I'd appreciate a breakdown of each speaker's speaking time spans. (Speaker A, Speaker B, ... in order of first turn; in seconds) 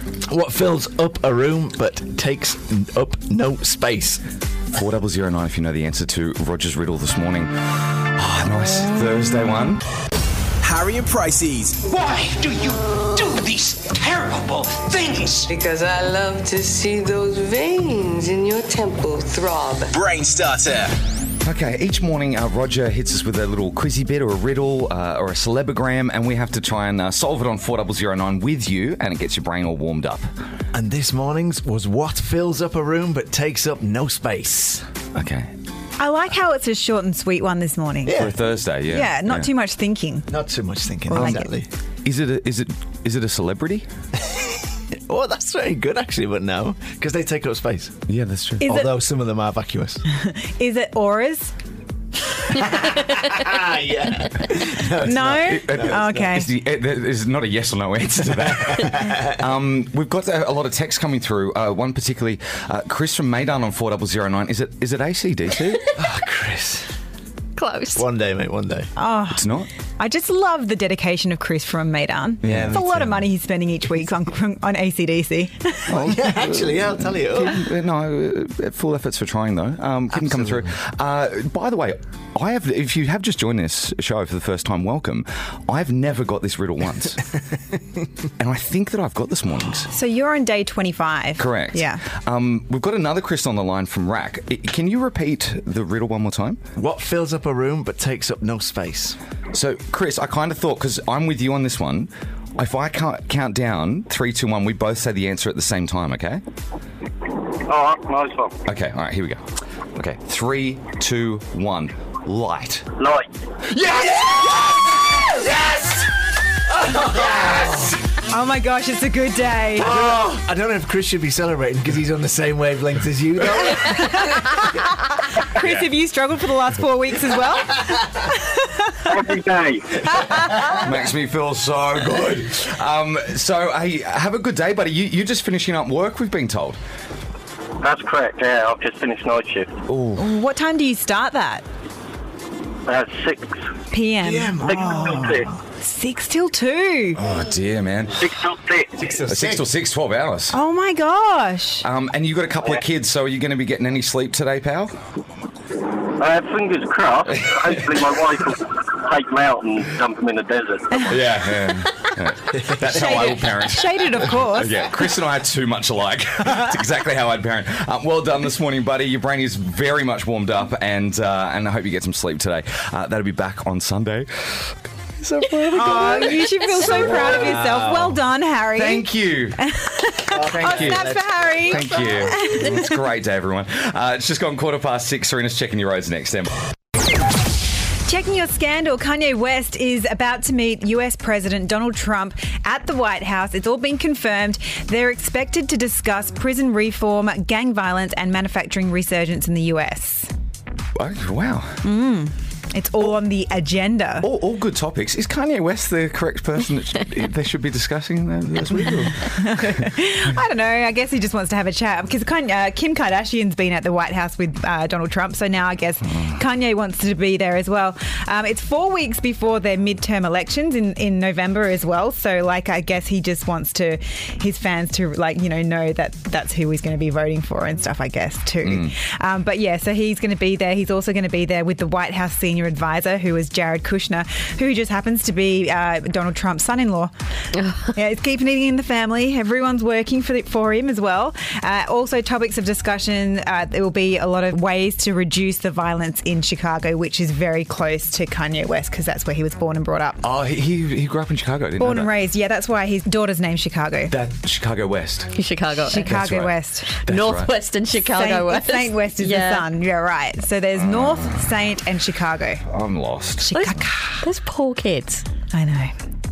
Speaker A: 0.3-4.2, 30.7-34.9, 38.1-38.4, 40.3-41.7, 45.1-48.0, 48.6-50.0, 52.5-56.2, 58.6-59.4, 66.0-66.9, 68.0-68.9, 72.4-73.3, 76.0-77.6, 96.8-99.2, 114.3-114.7, 116.8-118.0, 119.8-124.3, 144.2-145.4, 149.0-149.6, 162.7-163.2, 175.6-178.2, 180.3-182.3
Speaker B: 4.7-9.8, 21.4-30.3, 35.1-35.5, 38.1-39.5, 41.1-41.5, 42.0-43.9, 48.1-48.7, 55.4-65.9, 69.3-69.7, 72.4-72.8, 75.9-87.2, 88.4-89.9, 91.4-96.6, 99.5-106.4, 108.7-112.9, 113.7-116.0, 116.9-118.0, 119.9-120.4, 125.6-125.9, 130.8-136.8, 139.9-140.3, 147.2-148.2, 149.3-150.6, 151.8-155.0, 161.1-177.4, 178.7-179.7, 180.3-186.6, 200.9-201.9, 204.2-209.9, 228.6-228.9, 250.2-252.1, 254.1-255.4, 256.0-257.5, 260.8-261.5, 262.6-263.7
Speaker C: 10.6-11.8, 19.9-20.9
Speaker D: 11.9-15.4
Speaker E: 15.5-19.9
Speaker F: 36.0-38.3, 38.9-40.3, 41.1-41.5, 48.6-48.9, 50.1-51.5, 55.0-56.5, 69.0-76.0, 89.9-92.0, 118.3-119.9, 123.7-124.6, 125.4-129.0, 130.1-130.9, 140.2-141.7, 143.9-147.2, 150.5-151.8, 162.9-164.9, 175.7-182.9, 188.1-200.3, 201.8-204.3, 209.2-237.1, 237.9-250.2, 251.8-254.1, 255.8-257.0, 258.0-262.6, 263.5-264.3, 265.5-265.9
Speaker G: 67.6-68.1, 237.6-237.9, 255.4-256.1, 257.1-259.7, 263.5-265.3
Speaker H: 107.7-108.5, 113.0-113.3, 129.1-130.0, 137.8-139.7, 142.9-143.7, 144.6-145.5, 148.2-149.1, 156.2-161.2